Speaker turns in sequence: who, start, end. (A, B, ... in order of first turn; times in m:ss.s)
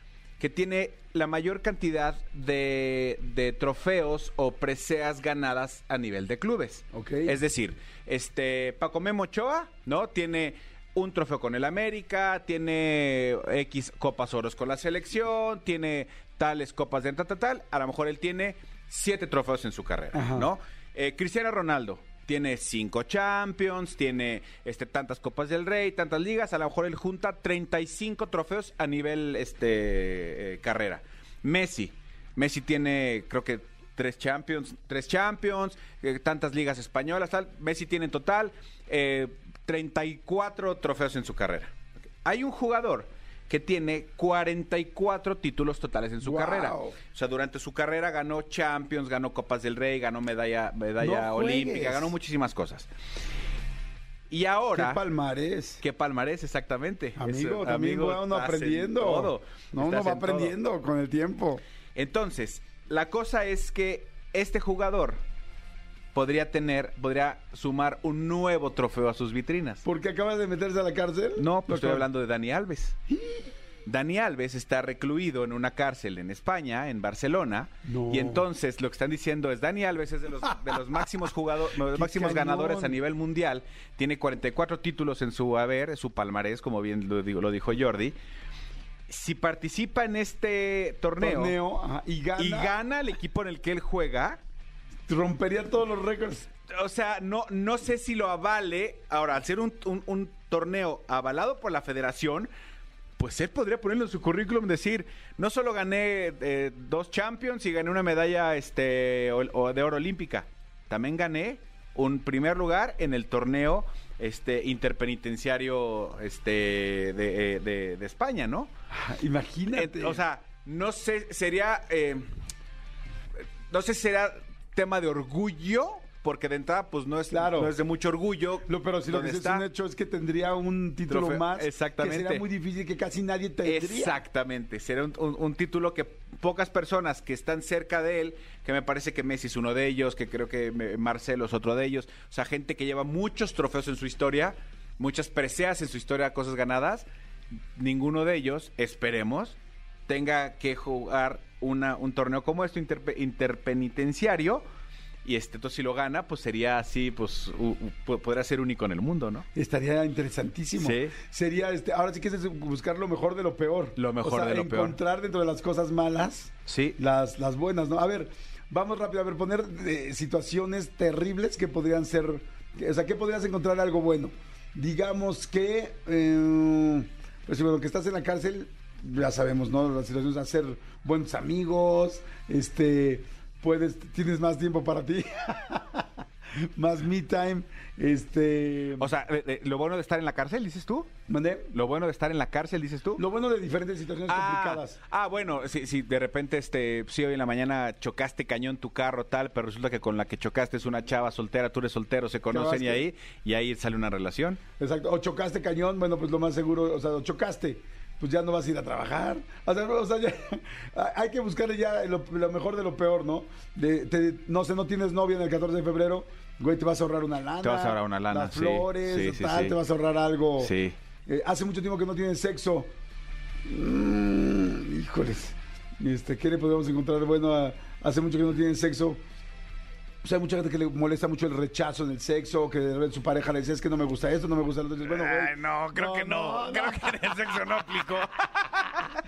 0:00.4-0:41.7 A
0:06.9-0:07.4 B
0:20.1-0:20.5 B
0:42.2-0:52.9 A
0:46.2-0:47.0 B
0:51.0-0:52.1 B
0:54.3-0:55.0 A
0:54.7-0:55.8 B
0:55.8-1:00.5 A
0:57.2-1:01.6 B
1:02.0-1:05.2 A
1:06.1-1:09.8 A
1:09.8-1:12.0 B
1:11.4-1:13.0 A
1:13.8-1:28.1 A
1:17.8-1:18.4 B
1:21.9-1:23.0 B
1:29.1-1:31.6 A
1:31.2-1:32.7 B
1:32.4-1:34.4 A
1:35.1-1:36.5 B
1:36.7-1:42.5 A
1:43.2-1:58.7 A
1:58.9-2:00.2 B
1:59.7-2:02.2 A
2:03.7-2:09.6 A
2:07.3-2:07.7 B
2:08.6-2:14.2 B
2:11.1-2:12.4 A
2:13.6-2:27.0 A
2:27.8-2:29.6 A
2:30.1-2:34.6 A
2:35.2-2:39.4 A
2:39.5-3:06.0 B
2:40.8-2:41.2 A
2:44.0-2:45.0 A
2:46.7-2:47.0 A
3:06.8-3:09.1 B
3:09.0-3:11.1 A
3:11.3-3:11.7 B
3:11.7-3:13.2 A
3:13.2-3:15.0 B
3:14.3-3:24.6 A
3:22.5-3:23.0 B
3:24.8-3:40.7 B
3:37.6-3:39.8 A
3:40.6-3:41.0 A
3:41.3-3:42.9 B
3:43.7-3:49.2 B
3:50.2-3:57.2 B
3:55.0-3:59.0 A